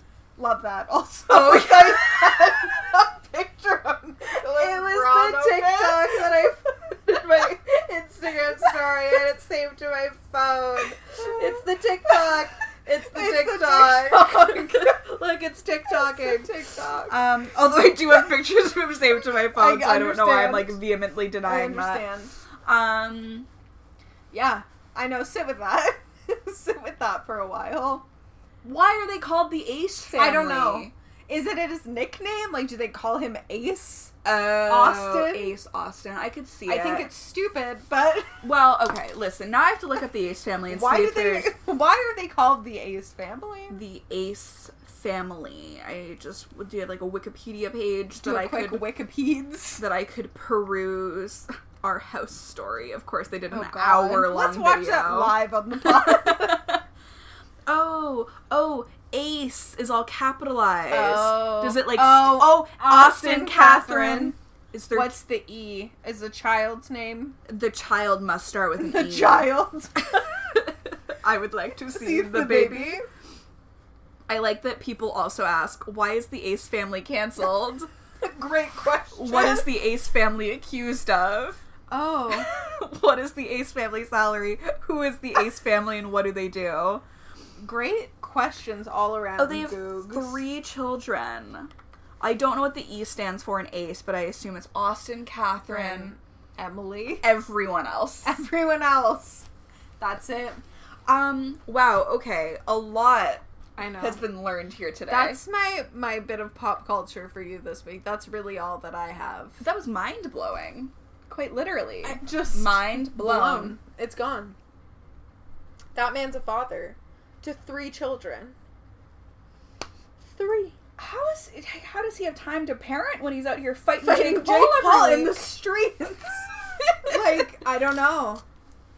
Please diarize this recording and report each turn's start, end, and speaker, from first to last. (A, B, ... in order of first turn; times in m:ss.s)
0:00.4-0:15.1 A
0:01.3-0:02.8 B
0:04.3-0:06.5 B
0:07.1-0:07.6 B
0:08.6-0:08.9 B
0:10.3-0:16.5 B
0:15.8-0:17.2 A
0:17.1-0:22.0 B
0:19.5-0:20.8 A
0:21.4-0:22.3 A
0:22.6-0:23.5 B
0:24.3-0:28.0 A
0:28.6-0:30.9 B
0:30.1-0:35.5 A
0:34.2-0:37.1 B
0:36.6-0:38.4 A
0:38.4-0:41.5 B
0:40.7-0:43.8 A
0:43.7-0:48.9 B
0:48.2-0:49.8 A
0:49.8-0:56.8 B
0:53.5-0:56.8 A
0:57.6-1:05.2 B
1:00.9-1:04.4 A
1:04.9-1:07.4 A
1:07.5-1:09.6 B
1:08.8-1:10.1 A
1:10.5-1:13.0 B
1:11.9-1:13.0 A
1:14.3-1:17.9 B
1:18.2-1:19.7 A
1:19.1-1:21.6 B
1:21.9-1:22.5 A
1:22.3-1:27.0 B
1:27.6-1:30.4 A
1:29.4-1:36.1 B
1:35.6-1:37.4 A
1:37.2-1:38.4 B
1:38.2-1:39.5 A
1:40.0-1:40.6 A
1:41.0-1:43.4 B
1:43.8-1:44.2 A
1:44.0-1:45.4 B
1:45.1-1:49.6 A
1:49.6-1:53.8 B
1:52.0-1:54.6 A
1:55.9-1:58.6 A
2:00.2-2:00.8 A
2:01.0-2:05.5 B
2:04.0-2:06.4 A
2:06.8-2:07.4 B
2:07.0-2:08.4 A